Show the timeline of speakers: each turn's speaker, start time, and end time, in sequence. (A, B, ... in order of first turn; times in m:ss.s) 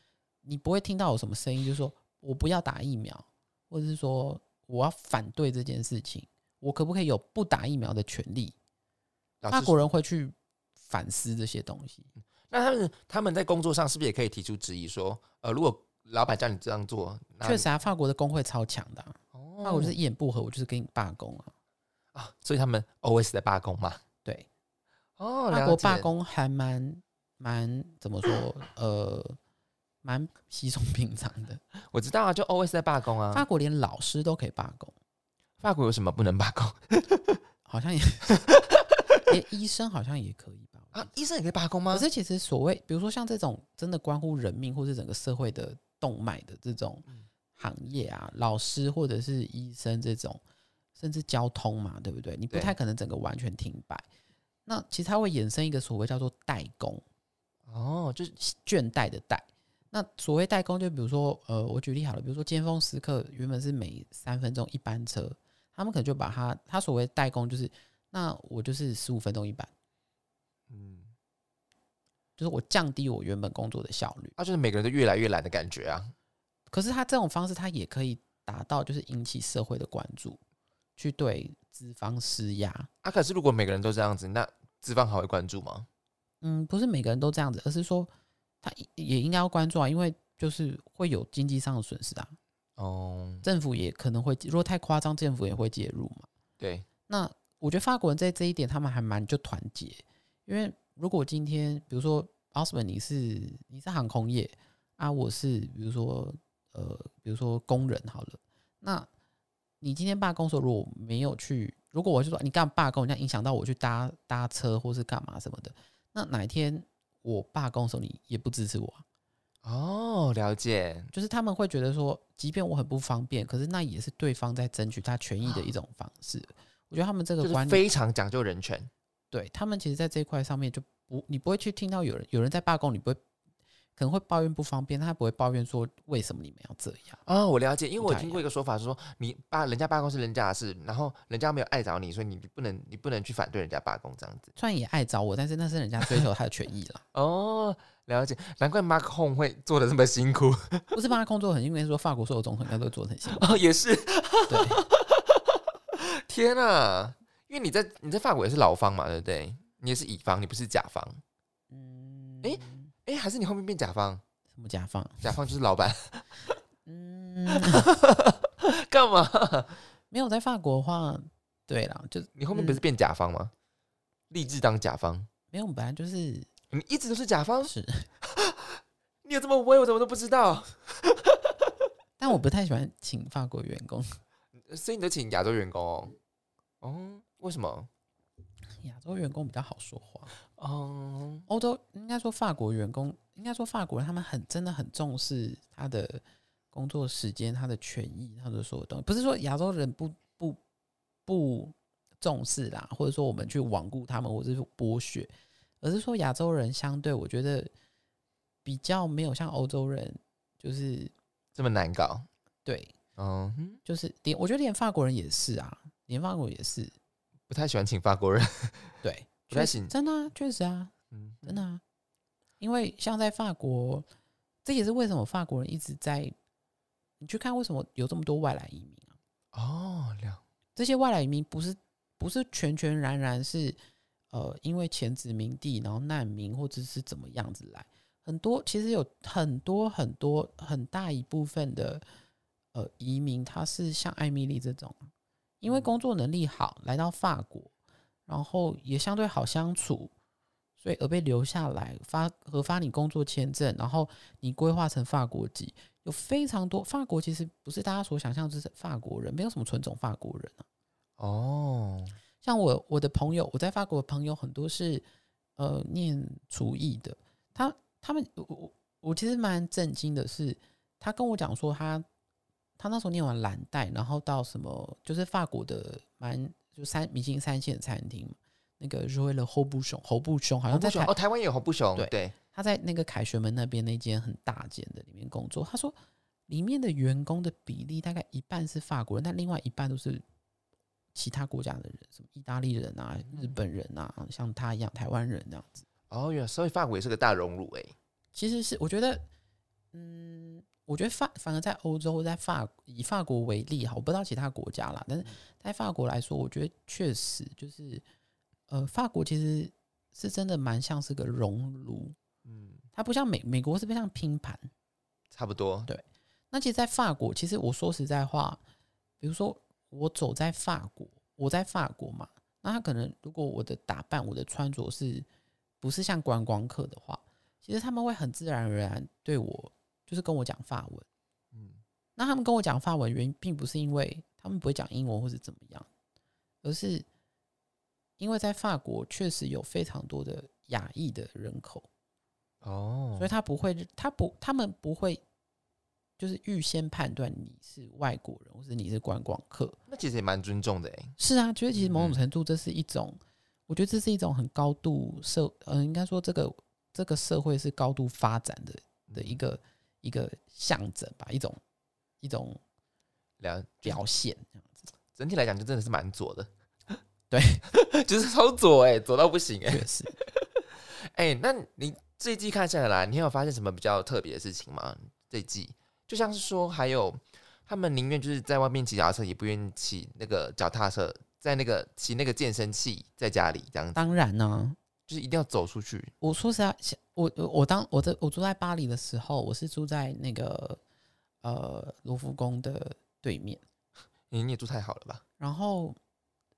0:00.4-0:08.6 A
0:09.4-0:09.9 B
0:09.5-0:12.1 A
0:12.5-0:17.7 B
0:17.4-0:21.5 A
0:19.3-0:20.0 B
0:22.1-0:24.0 B
0:25.2-0:26.1 B
0:25.5-0:29.4 A
0:30.0-0:31.6 A
0:31.9-0:33.5 B
0:33.3-0:34.9 A
0:35.6-0:37.4 B
0:37.7-0:38.4 A
0:38.5-0:38.9 B
0:39.3-0:41.1 A
0:40.9-0:42.1 B
0:41.9-0:50.4 A
0:51.0-0:54.0 A
0:54.7-0:57.0 A
0:57.7-0:58.4 B
0:58.4-1:09.7 A
1:10.7-1:11.1 B
1:12.4-1:14.4 A
1:14.4-1:16.1 B
1:16.7-1:20.4 A
1:21.0-1:22.9 A
1:23.0-1:25.9 B
1:26.4-1:28.1 A
1:28.6-1:32.4 A
1:32.8-1:33.4 B
1:33.4-1:36.3 A
1:36.6-1:36.9 B
1:37.1-1:49.1 A
1:49.8-1:59.0 A
1:59.6-2:01.1 B
2:01.1-2:07.8 A
2:07.4-2:08.9 B
2:09.3-2:13.2 A
2:14.0-2:17.2 A
2:17.3-2:24.5 B
2:18.0-2:18.4 A
2:24.6-2:27.0 A
2:27.1-2:31.0 B
2:30.9-2:33.6 A
2:33.3-2:41.2 B
2:34.5-2:34.8 A
2:41.7-2:42.9 A
2:42.4-2:44.2 B
2:44.6-2:45.3 A
2:45.2-2:46.4 B
2:46.8-2:47.9 A
2:47.5-2:49.8 B
2:50.1-2:52.8 A
2:52.4-2:53.5 B
2:54.3-2:55.3 B
2:55.5-2:56.5 A
2:56.7-3:01.7 B
2:57.6-2:58.1 A
3:02.2-3:04.2 A
3:04.6-3:06.2 B
3:06.8-3:07.9 B
3:08.8-3:10.3 A
3:10.5-3:11.5 B
3:11.5-3:20.6 A
3:21.3-3:27.7 A
3:28.6-3:31.1 A
3:31.6-3:32.3 B
3:32.6-3:32.9 A
3:33.2-3:33.8 B
3:33.8-3:37.0 A
3:37.5-3:39.9 B
3:39.0-3:40.9 A
3:41.1-3:41.6 B
3:41.4-3:41.8 A
3:42.6-3:44.0 A
3:44.6-3:46.3 A
3:47.2-3:49.2 A
3:49.5-3:50.4 B
3:50.8-3:53.8 A
3:54.3-4:02.0 A
4:02.7-4:07.7 A
4:05.7-4:06.0 B
4:08.3-4:10.1 A
4:10.8-4:20.6 A
4:21.2-4:22.2 B
4:22.4-4:25.0 A
4:25.6-4:32.0 A
4:32.8-4:41.1 A
4:40.7-4:42.4 B
4:42.0-4:46.0 A
4:46.5-4:50.2 A
4:51.2-4:55.9 A
4:53.3-4:53.6 B
4:56.1-4:57.9 B
4:58.3-4:59.3 A
4:59.9-5:08.0 A
5:08.7-5:12.2 A
5:12.4-5:12.8 B
5:12.9-5:14.7 A
5:15.3-5:15.9 B
5:15.9-5:18.6 A
5:19.2-5:25.3 A
5:25.8-5:31.1 A
5:31.5-5:31.8 B
5:32.2-5:35.9 A
5:36.6-5:37.1 A
5:38.2-5:41.9 A
5:42.6-5:43.3 B
5:43.2-5:45.2 A
5:46.2-5:49.8 A
5:49.9-5:51.2 B
5:51.2-6:01.6 A
5:51.8-5:52.2 B
5:59.1-5:59.4 B
6:02.2-6:02.6 A
6:03.4-6:04.0 B
6:03.8-6:04.8 A
6:05.2-6:07.0 B
6:07.3-6:07.6 A
6:07.7-6:24.0 B
6:09.7-6:10.2 A
6:24.0-6:24.8 A
6:25.1-6:26.1 B
6:26.2-6:30.8 A
6:31.4-6:33.6 A
6:34.3-6:35.2 B
6:35.4-6:36.0 A